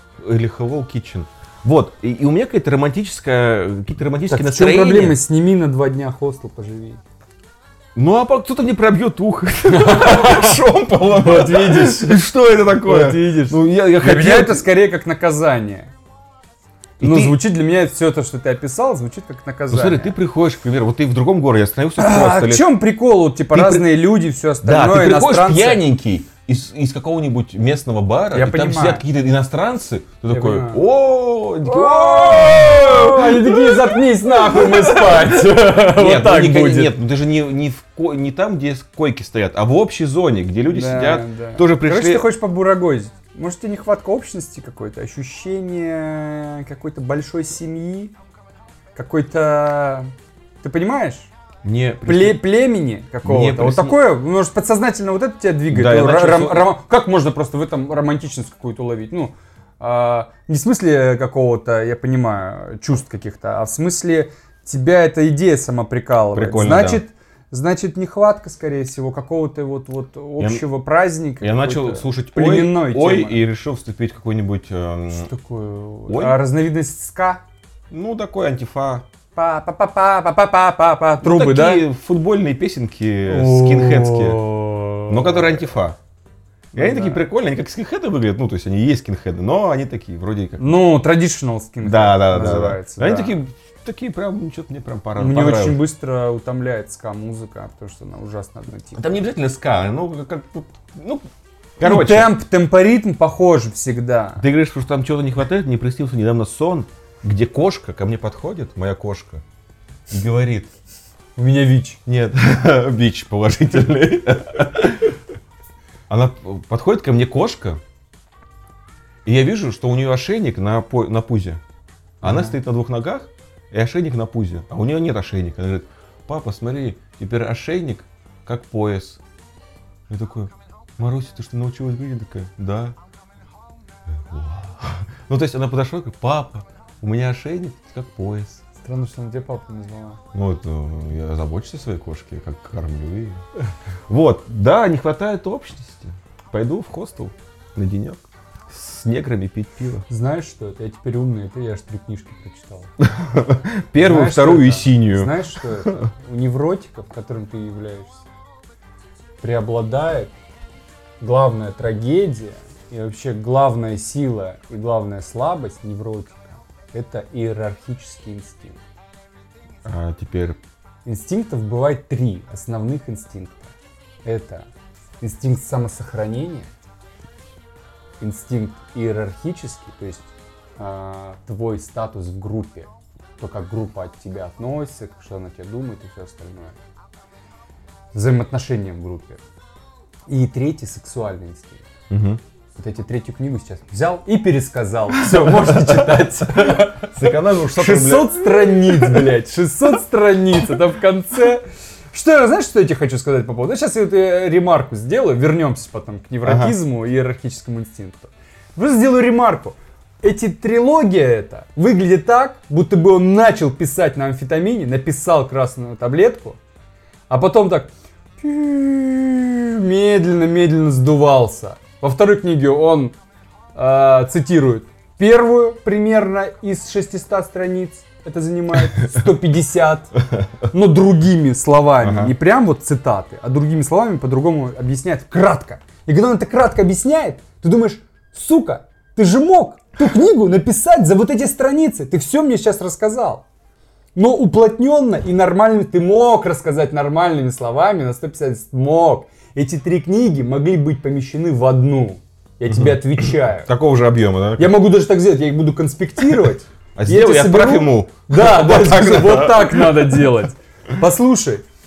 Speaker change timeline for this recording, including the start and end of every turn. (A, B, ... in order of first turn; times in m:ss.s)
0:00.2-0:05.2 A
0:04.3-0:07.0 B
0:07.9-0:14.6 A
0:09.7-0:12.2 B
0:12.8-0:15.9 B
0:17.0-0:17.4 A
0:17.0-0:20.1 B
0:19.7-0:22.6 A
0:22.0-0:25.8 B
0:23.5-0:23.9 A
0:24.6-0:42.2 A
0:28.3-0:29.0 B
0:30.3-0:30.8 B
0:31.6-0:36.9 B
0:40.7-0:48.1 B
0:48.9-0:51.3 B
0:51.6-0:52.4 A
0:52.0-1:13.4 B
0:53.2-0:54.0 A
0:55.7-0:56.7 A
1:06.3-1:07.0 A
1:11.4-1:15.3 A
1:15.1-1:17.4 B
1:16.1-1:16.4 A
1:17.9-1:19.0 A
1:19.3-1:21.8 B
1:21.2-1:24.4 A
1:23.3-1:25.7 B
1:25.1-1:26.0 A
1:26.7-1:27.2 B
1:26.7-1:30.6 A
1:30.6-1:33.4 B
1:31.8-1:35.8 A
1:35.2-1:39.0 B
1:38.9-1:41.2 A
1:41.8-1:42.3 A
1:41.8-1:44.4 B
1:44.4-1:49.4 A
1:50.1-1:50.7 A
1:51.4-1:52.0 B
1:52.0-1:55.2 A
1:56.1-1:57.8 A
1:59.2-2:01.6 A
2:02.2-2:02.6 B
2:02.2-2:09.2 A
2:10.1-2:13.0 A
2:14.1-2:18.6 A
2:18.8-2:20.2 B
2:20.3-2:23.4 A
2:24.1-2:30.0 A
2:30.1-2:32.9 B
2:33.0-2:36.1 A
2:34.0-2:38.2 B
2:39.4-2:40.3 B
2:41.2-2:48.8 B
2:49.8-2:50.6 A
2:51.0-2:53.7 B
2:54.2-2:54.7 B
2:55.2-2:56.7 B
2:58.2-3:06.7 B
3:08.1-3:09.4 B
3:10.3-3:11.8 B
3:12.1-3:12.4 A
3:12.8-3:36.6 B
3:15.2-3:19.3 A
3:26.4-3:26.7 A
3:37.3-3:43.1 B
3:43.7-4:03.4 B
3:52.0-3:52.3 A
4:04.1-4:13.7 B
4:12.7-4:14.7 A
4:14.6-4:21.6 B
4:17.0-4:20.1 A